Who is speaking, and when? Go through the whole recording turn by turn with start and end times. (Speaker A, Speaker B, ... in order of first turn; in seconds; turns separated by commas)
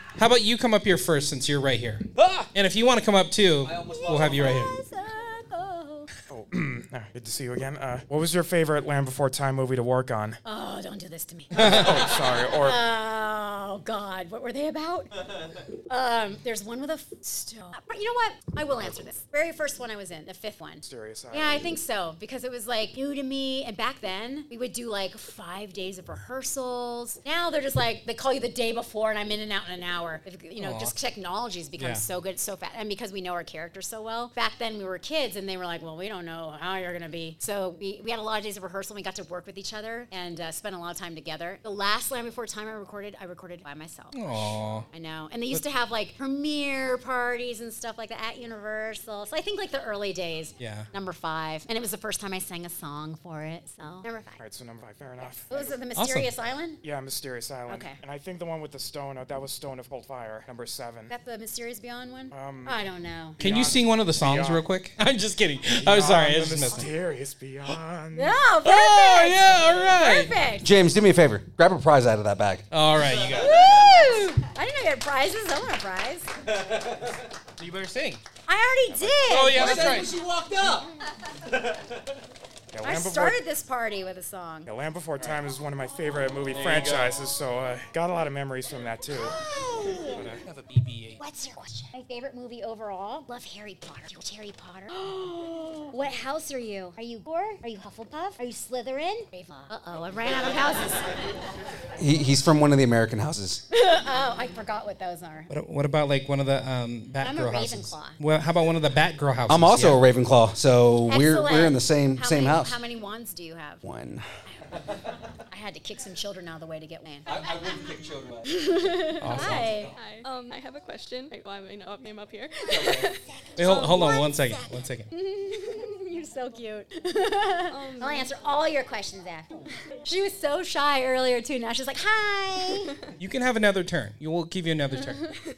Speaker A: 0.1-4.7, Speaker B: 2.2-2.5, Speaker B: 3.6-4.6, Speaker C: 4.0-6.1, Speaker D: 6.3-10.4, Speaker C: 10.4-15.1, Speaker A: 11.5-11.9, Speaker D: 11.6-12.8, Speaker C: 15.9-54.4, Speaker D: 20.8-21.7, Speaker A: 30.6-30.9, Speaker A: 31.8-32.0, Speaker A: 44.1-44.9, Speaker A: 50.6-50.9, Speaker D: 54.4-55.8, Speaker C: 55.5-56.8, Speaker A: 56.0-56.3, Speaker D: 56.8-61.1, Speaker C: 57.7-58.0, Speaker C: 61.1-63.4, Speaker D: 62.3-62.9, Speaker D: 63.4-64.7, Speaker A: 63.4-66.9, Speaker D: 65.7-68.4, Speaker C: 68.1-70.7, Speaker A: 68.6-70.4, Speaker B: 70.6-72.7, Speaker A: 72.7-74.2, Speaker C: 73.4-76.3, Speaker A: 77.6-78.2, Speaker C: 78.5-79.9, Speaker A: 79.2-80.1, Speaker B: 79.6-80.8, Speaker D: 82.7-83.4, Speaker C: 82.8-84.7, Speaker D: 84.7-89.4, Speaker A: 86.5-87.1, Speaker C: 89.3-90.2, Speaker A: 90.1-91.2, Speaker C: 91.2-101.3, Speaker B: 102.0-103.6, Speaker C: 103.7-105.5, Speaker A: 105.5-110.0, Speaker C: 107.2-108.2, Speaker B: 109.5-112.8, Speaker C: 111.1-113.8, Speaker B: 113.8-114.2, Speaker C: 114.5-114.8, Speaker C: 115.5-117.7, Speaker B: 117.2-119.6, Speaker C: 118.4-120.0, Speaker A: 119.2-119.7, Speaker E: 119.9-123.1, Speaker C: 122.7-132.9, Speaker A: 123.6-125.1, Speaker E: 127.7-128.3, Speaker A: 133.2-135.3